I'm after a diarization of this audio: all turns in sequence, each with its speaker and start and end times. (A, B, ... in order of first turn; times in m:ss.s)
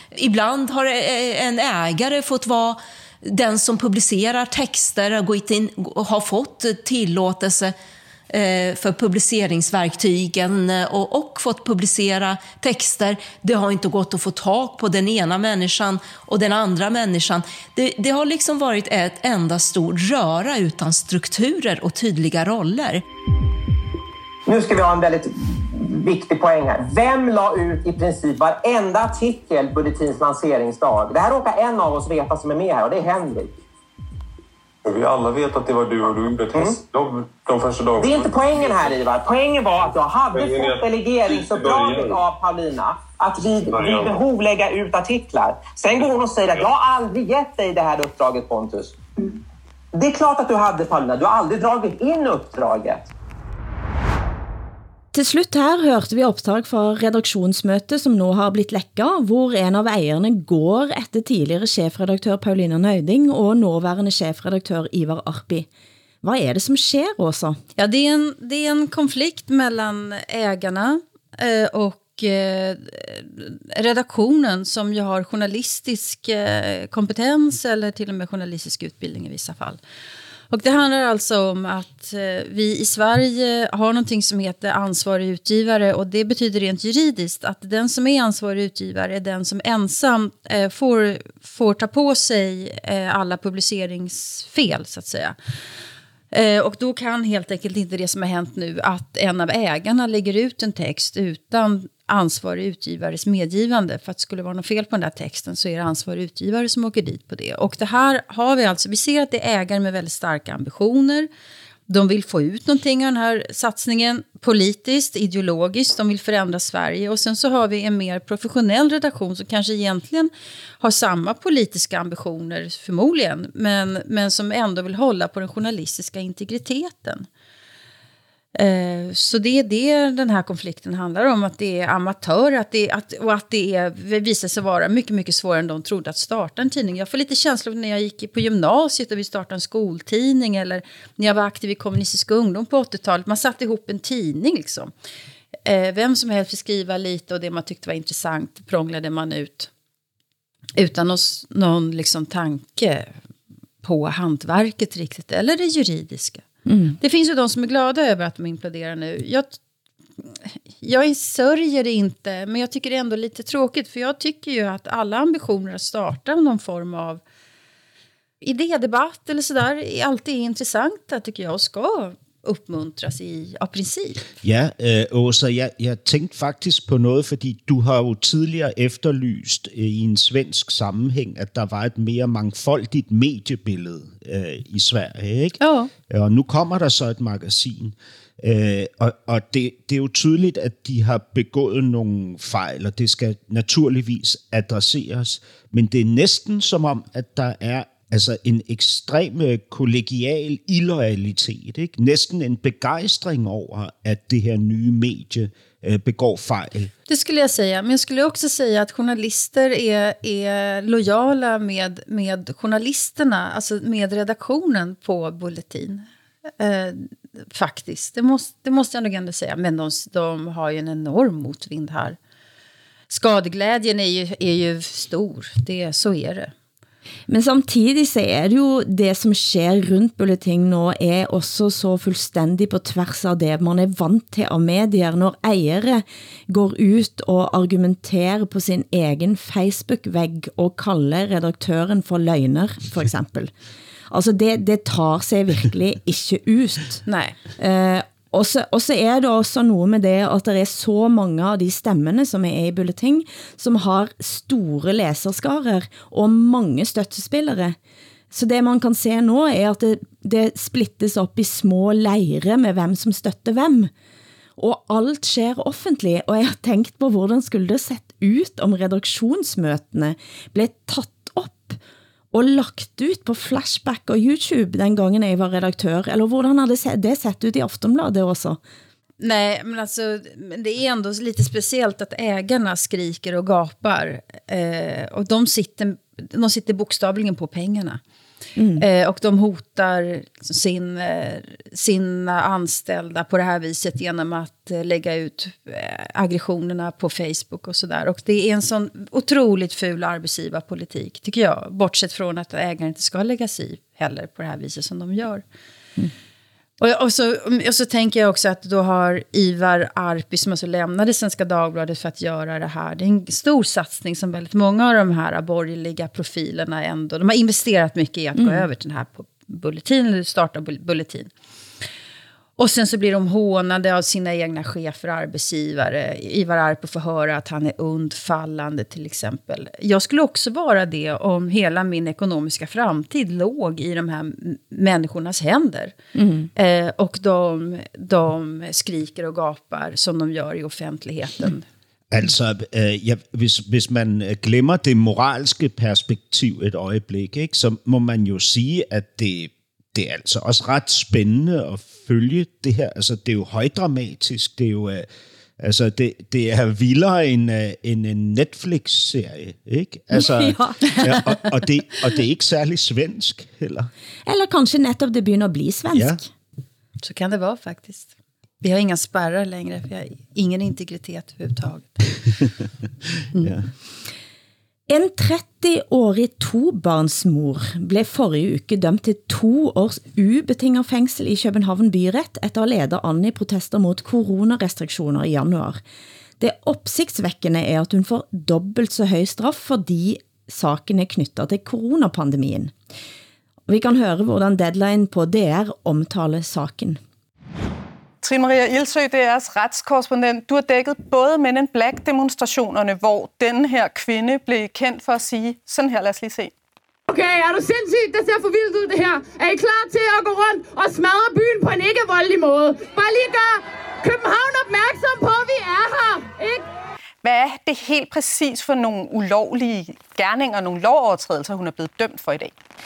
0:00.2-0:07.7 A
0:08.3-0:23.0 A
0:24.5-0:33.5 B
0:34.8-0:38.8 C
0:36.5-0:36.8 B
0:38.0-0:49.0 B
0:40.3-0:42.2 C
0:43.7-0:44.2 C
0:50.0-0:53.1 B
0:55.1-1:05.7 D
1:06.2-1:07.6 D
1:07.8-1:19.8 E
1:20.5-1:35.4 E
1:36.3-1:51.3 E
1:51.9-2:07.3 E
2:08.6-2:24.9 E
2:25.6-2:29.7 E
2:30.8-2:33.1 E
2:33.8-2:36.4 E
2:36.7-2:37.0 D
2:37.0-2:39.6 E
2:40.2-2:47.2 E
2:48.4-2:54.2 E
2:54.4-3:05.6 F
3:05.6-3:05.9 E
3:06.1-3:26.9 F
3:27.1-3:36.1 E
3:36.6-3:42.2 E
3:43.1-3:46.5 E
3:47.3-4:03.5 D
4:04.1-4:07.0 D
4:07.1-4:07.4 E
4:07.6-4:17.8 D
4:18.3-4:23.9 D
4:24.6-4:31.8 D
4:32.3-4:38.6 D
4:39.2-4:48.0 E
4:48.6-4:48.8 D
4:48.8-5:05.4 E
5:06.8-5:21.3 E
5:18.4-5:18.7 D
5:22.6-5:36.0 E
5:36.2-5:36.5 D
5:36.6-5:41.7 E
5:42.1-5:55.1 F
5:55.6-6:03.9 F
6:00.3-6:00.8 D
6:04.3-6:06.3 D
6:05.9-6:06.2 F
6:07.0-6:12.0 E
6:13.4-6:13.7 F
6:14.9-6:25.8 D
6:26.4-6:32.7 D
6:33.7-6:37.0 D
6:38.2-6:46.5 G
6:47.1-6:56.6 H
6:57.2-7:02.5 G